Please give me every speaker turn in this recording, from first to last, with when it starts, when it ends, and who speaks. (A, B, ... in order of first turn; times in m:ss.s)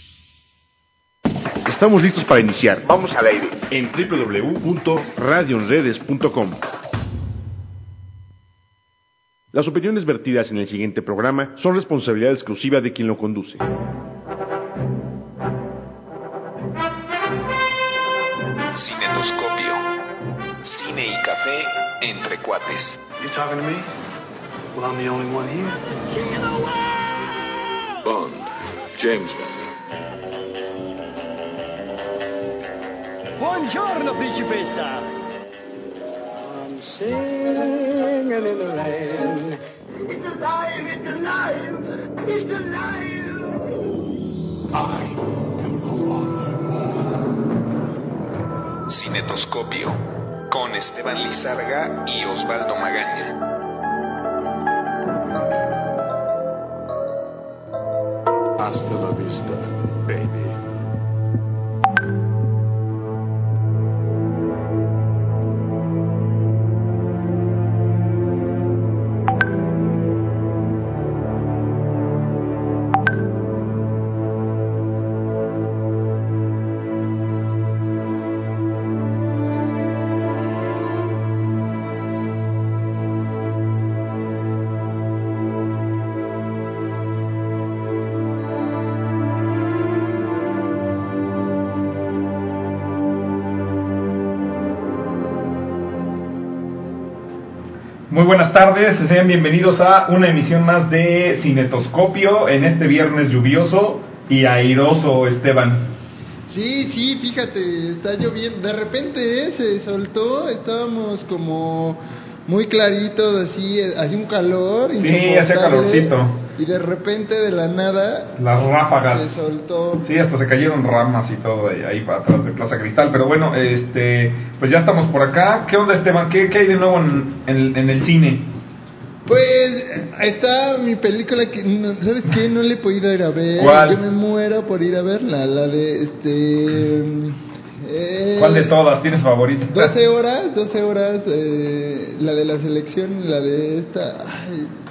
0:01.6-0:06.6 A
0:09.5-0:13.6 A
0:18.7-0:19.8 B
0:20.6-0:23.0 B
0:23.2-0:23.8 C
0:24.8-0:25.8 C
0:28.0-0:28.4 C
0:29.0-0:29.5 C
0:33.4-0:35.0 D
0:36.5-0:39.5 D
0:40.6-0:41.6 D
0:42.3-0:42.9 D
0:48.9-0:53.3 B
0:58.6-1:00.6 C
1:38.1-1:45.8 E
1:46.5-1:58.3 F
1:55.0-1:56.4 E
1:58.4-1:59.3 E
1:59.1-2:00.0 F
2:00.0-2:08.4 E
2:09.2-2:18.7 F
2:13.6-2:14.0 E
2:18.4-2:19.9 E
2:19.7-2:24.7 F